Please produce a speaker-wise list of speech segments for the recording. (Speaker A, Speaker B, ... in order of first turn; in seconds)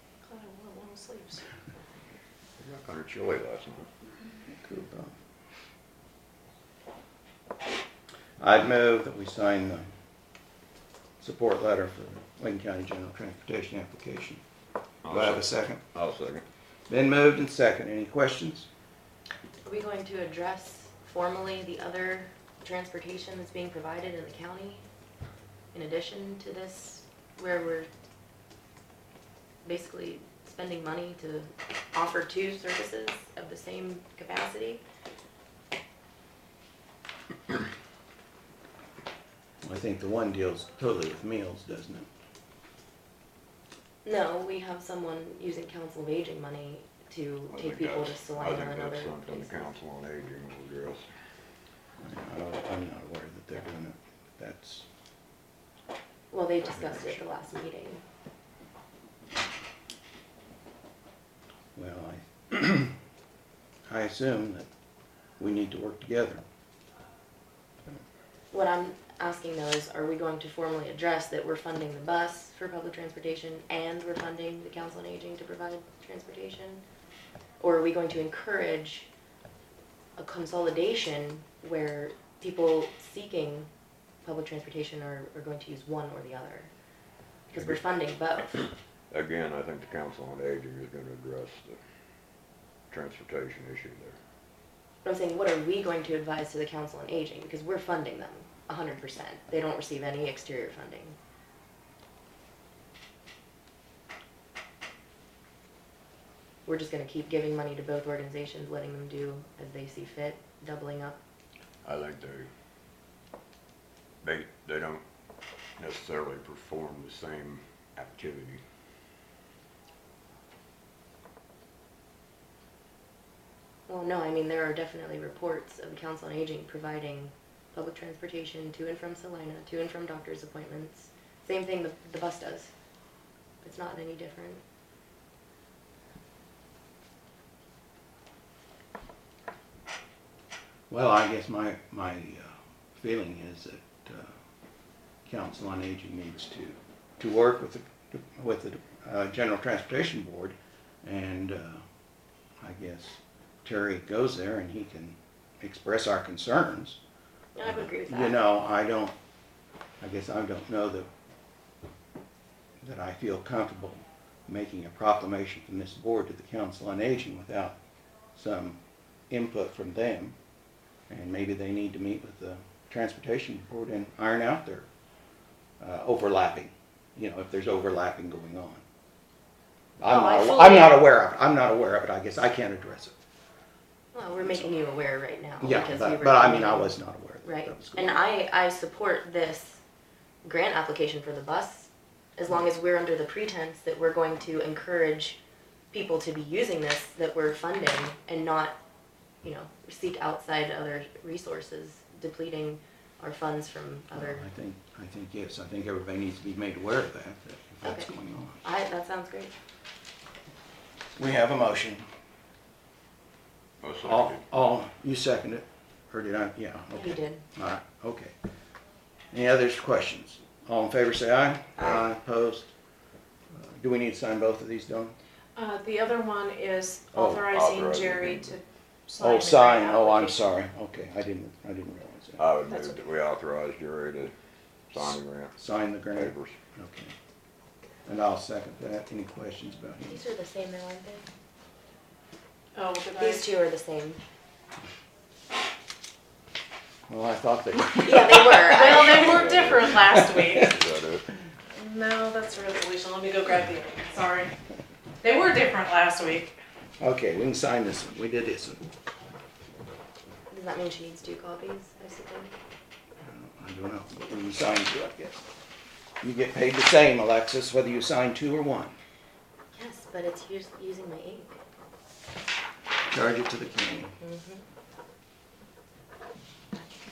Speaker A: 0.2-1.4, 225.6-230.4, 232.7-232.9, 242.7-243.4, 248.6-250.8, 251.7-254.5, 255.2-256.5
Speaker B: 2.6-3.9, 15.0-16.4, 47.5-51.1, 89.1-91.8, 92.9-94.2, 111.8-112.5, 114.2-115.0, 115.8-118.6, 213.8-214.4, 227.5-228.6, 232.4-234.3, 234.9-236.6, 249.2-250.0, 250.5-251.2
Speaker C: 4.5-5.1, 8.4-9.8, 11.2-14.4, 15.1-15.8, 16.9-18.7, 39.6-42.1, 52.0-54.9, 61.7-63.0, 63.9-64.7, 65.4-66.4, 140.9-144.3, 145.2-151.8, 152.6-157.0, 157.6-159.1, 160.0-161.1, 162.8-167.8, 168.3-168.8, 169.3-170.3, 171.1-174.9, 175.8-178.8, 180.0-183.1, 185.6-188.2, 204.1-208.6, 211.2-212.0, 214.0-218.3, 219.3-222.7, 223.5-225.2, 227.1-227.5, 229.2-232.4, 235.6-237.1, 238.1-240.2, 247.1-248.9, 250.0-250.7, 257.0-258.8, 263.2-265.4, 266.2-268.9, 273.1-274.2
Speaker D: 19.6-24.8, 25.7-27.9, 29.6-34.8, 44.0-49.7, 56.3-58.0, 68.5-76.8, 77.6-79.1, 80.2-83.7, 84.2-86.7, 87.5-88.7, 95.0-101.2, 106.7-111.2, 123.9-132.7, 133.6-134.6, 157.5-158.4, 180.1-181.1, 184.1-189.8, 190.4-195.4, 195.9-198.8, 199.4-204.5, 207.8-208.1, 208.6-209.5, 216.9-217.4, 240.0-241.3, 243.2-244.2, 248.0-249.4, 260.5-262.5, 269.7-271.6, 274.2-274.6